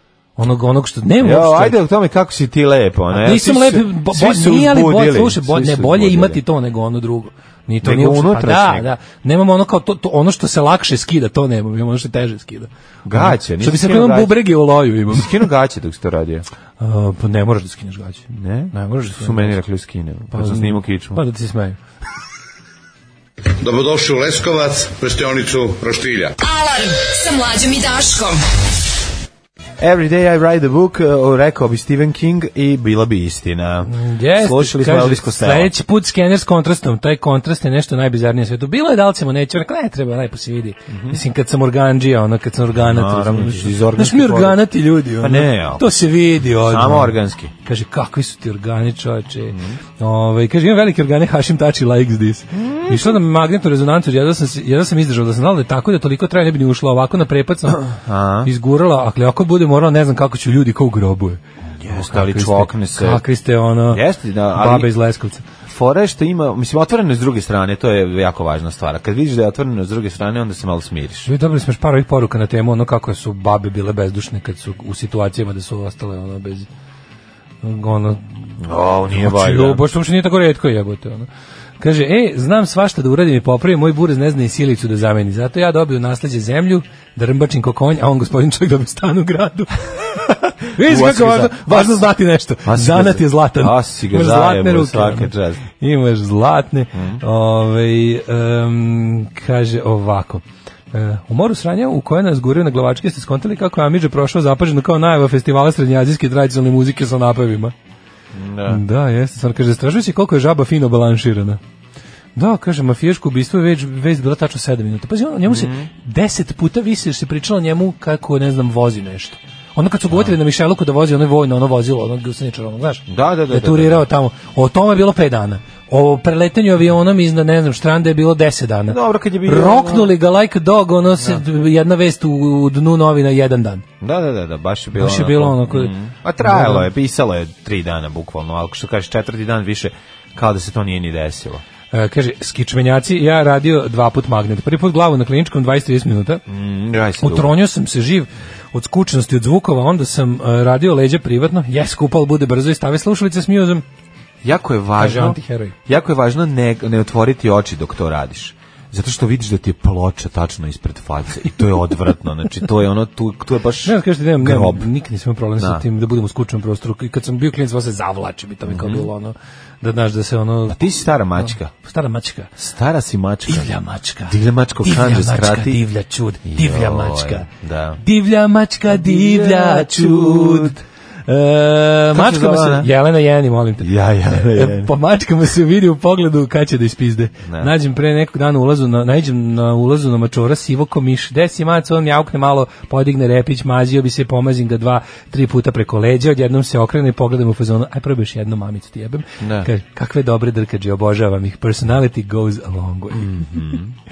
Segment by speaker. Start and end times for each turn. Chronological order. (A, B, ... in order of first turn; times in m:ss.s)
0:00.4-0:01.8 A
0:01.2-0:06.4 B
0:03.1-0:15.5 A
0:07.8-0:08.9 B
0:13.0-0:14.4 B
0:15.1-0:16.4 B
0:16.8-0:19.6 A
0:18.3-0:21.2 B
0:20.3-0:21.8 A
0:23.6-0:26.3 C
0:26.4-0:28.5 D
0:29.8-0:35.7 B
0:33.9-1:04.0 A
0:40.9-0:41.2 B
0:42.8-0:44.6 B
0:45.2-0:46.0 B
0:46.5-0:47.5 B
0:49.5-0:49.8 B
0:52.5-0:53.1 B
0:57.9-0:58.5 B
1:01.8-1:03.2 B
1:03.9-1:04.9 B
1:04.5-1:05.4 A
1:05.6-1:11.3 B
1:11.2-1:16.7 A
1:17.6-1:21.3 A
1:18.6-1:19.8 B
1:21.8-1:47.7 A
1:30.8-1:32.0 B
1:32.6-1:35.6 B
1:36.9-1:37.2 B
1:48.3-1:48.8 B
1:48.6-1:51.6 A
1:52.4-2:13.8 A
1:55.5-1:55.9 B
2:03.1-2:04.0 B
2:08.9-2:10.1 B
2:14.0-2:21.6 B
2:14.9-2:16.9 A
2:21.9-2:26.4 A
2:26.5-2:27.5 B
2:27.2-2:33.8 A
2:34.4-2:44.9 B
2:35.0-2:35.7 A
2:43.8-2:50.8 A
2:45.6-2:45.8 B
2:48.6-2:49.1 B
2:50.7-2:51.7 B
2:51.4-2:52.5 A
2:52.6-2:53.7 B
2:53.5-2:57.5 A
2:54.3-2:55.8 B
2:56.4-2:58.0 B
2:58.0-3:23.8 A
2:58.9-3:00.8 B
3:02.1-3:02.9 B
3:03.8-3:04.9 B
3:07.4-3:07.7 B
3:19.4-3:19.7 B
3:23.1-3:23.9 B